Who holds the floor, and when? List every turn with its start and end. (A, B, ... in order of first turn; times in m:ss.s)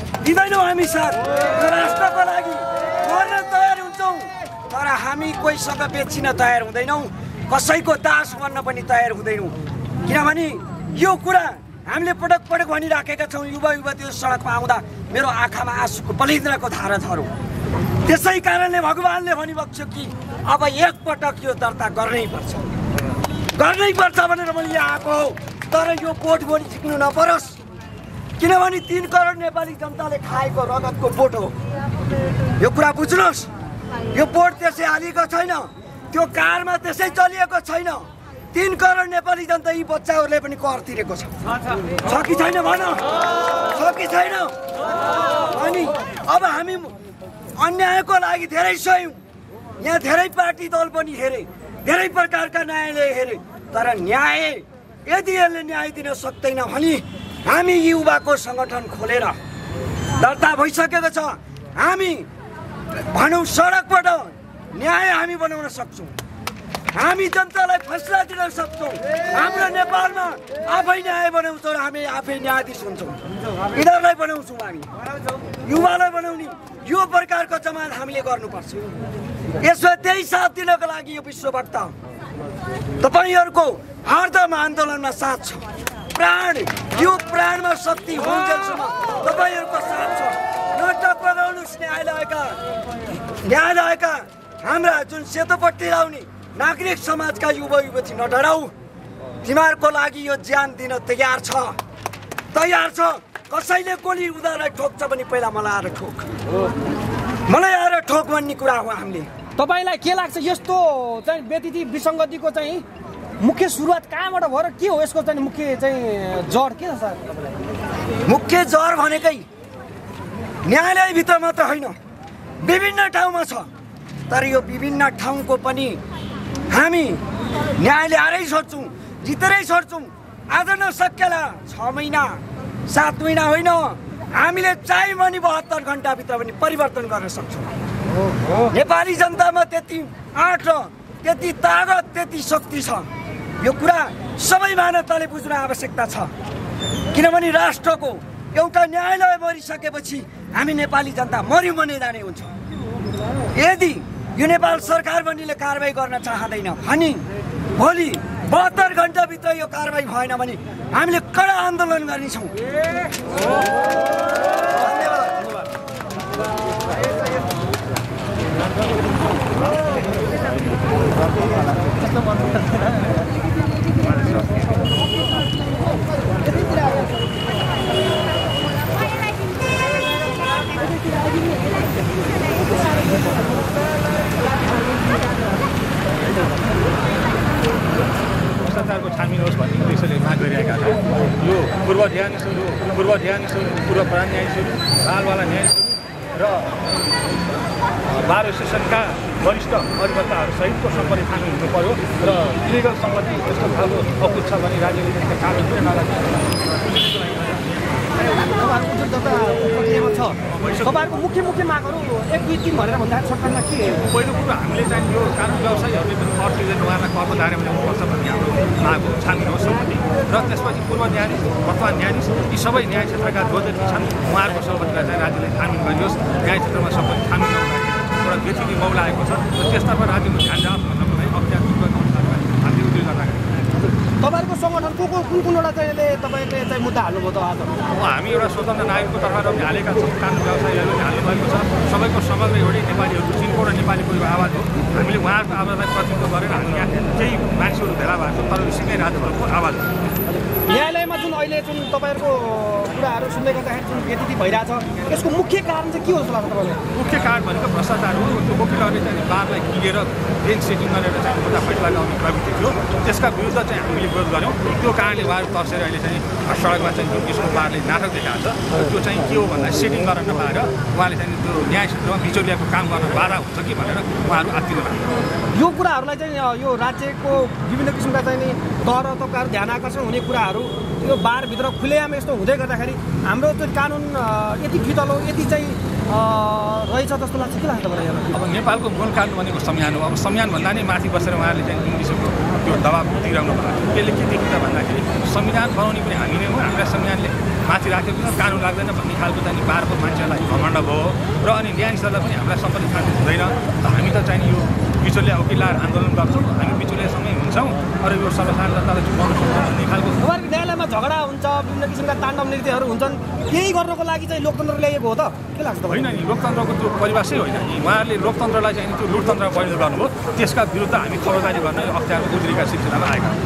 0:00.2-0:17.3 A
0:18.0-0:22.7 A
0:23.6-0:27.6 A
0:28.4-0:31.5 A
0:32.6-0:33.5 A
0:34.1-0:41.4 A
0:42.0-0:44.6 A
0:45.4-0:47.0 A
0:47.6-0:49.2 A
0:49.8-0:59.4 A
1:00.2-1:02.3 A
1:03.0-1:06.1 A
1:06.9-1:13.2 A
1:13.7-1:14.9 A
1:15.6-1:18.9 A
1:19.6-1:22.0 A
1:23.0-1:32.6 A
1:33.3-1:38.7 A
1:39.4-1:41.8 A
1:42.5-1:46.4 A
1:47.5-1:49.3 A
1:49.6-1:52.9 B
1:53.4-1:57.3 B
1:58.3-1:59.4 A
2:00.6-2:02.0 A
2:02.6-2:03.7 A
2:04.3-2:06.0 A
2:06.7-2:07.2 A
2:07.8-2:17.7 A
2:18.7-2:23.1 A
2:23.6-2:26.3 A
2:27.1-2:32.5 A
2:33.5-2:37.2 A
2:37.8-2:42.6 A
2:44.8-2:45.3 A
3:08.6-3:16.8 C
3:18.1-3:27.6 C
3:28.2-3:34.0 B
3:30.5-3:31.1 C
3:34.1-3:53.7 C
3:54.2-3:57.8 B
3:57.9-4:09.9 C
4:10.6-4:16.8 B
4:16.9-4:35.1 C
4:35.5-4:48.3 B
4:48.3-5:10.2 C
5:10.2-5:16.1 B
5:15.9-5:23.4 C